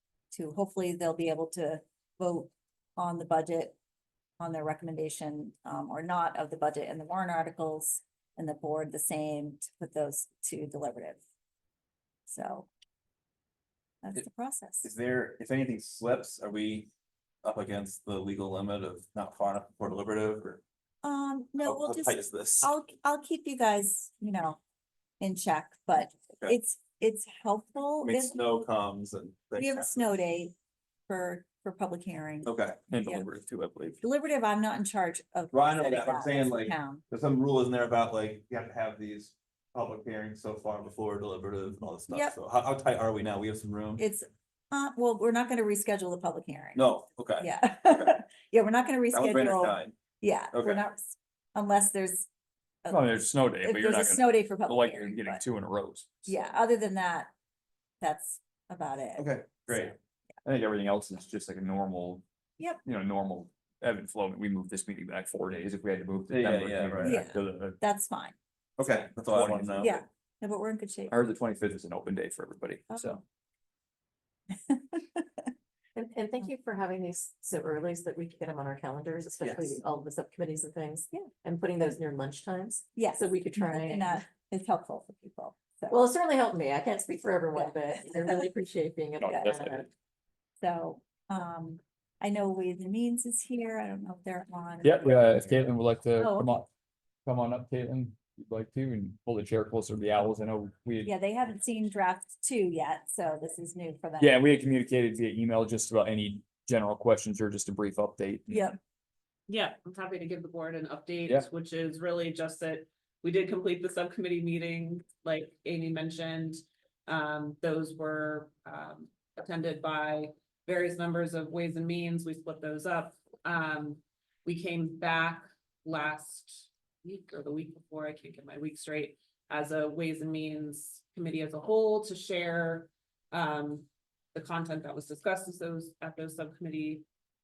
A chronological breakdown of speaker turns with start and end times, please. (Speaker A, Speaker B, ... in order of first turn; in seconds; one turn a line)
Speaker A: 0.3-3.8
Speaker A: 4.4-11.2
Speaker A: 12.3-12.7
Speaker A: 14.0-14.9
Speaker B: 14.8-16.9
Speaker B: 17.4-20.6
Speaker A: 21.0-24.6
Speaker B: 21.6-22.7
Speaker A: 25.2-28.4
Speaker B: 28.0-29.9
Speaker A: 29.6-30.6
Speaker A: 31.1-32.5
Speaker B: 32.5-32.8
Speaker C: 32.9-34.0
Speaker A: 34.0-37.0
Speaker B: 35.5-44.0
Speaker A: 42.1-42.4
Speaker A: 44.0-52.3
Speaker B: 46.8-48.1
Speaker B: 49.1-50.0
Speaker B: 50.5-50.8
Speaker A: 52.8-53.1
Speaker C: 52.9-56.3
Speaker A: 53.6-55.4
Speaker A: 56.3-57.3
Speaker A: 58.0-60.0
Speaker B: 59.2-60.0
Speaker C: 60.4-62.2
Speaker C: 62.8-67.8
Speaker B: 66.3-67.2
Speaker A: 67.0-68.3
Speaker B: 68.8-70.0
Speaker C: 69.3-70.0
Speaker A: 69.8-71.2
Speaker C: 71.1-73.2
Speaker A: 72.9-73.2
Speaker A: 74.7-75.4
Speaker D: 76.0-84.2
Speaker B: 79.4-79.8
Speaker A: 83.0-86.0
Speaker D: 85.9-89.9
Speaker C: 89.2-89.8
Speaker A: 90.6-95.6
Speaker C: 94.8-96.7
Speaker A: 96.2-96.5
Speaker C: 97.3-101.1
Speaker A: 101.0-104.4
Speaker C: 104.2-108.7
Speaker A: 108.5-108.8
Speaker E: 109.5-137.1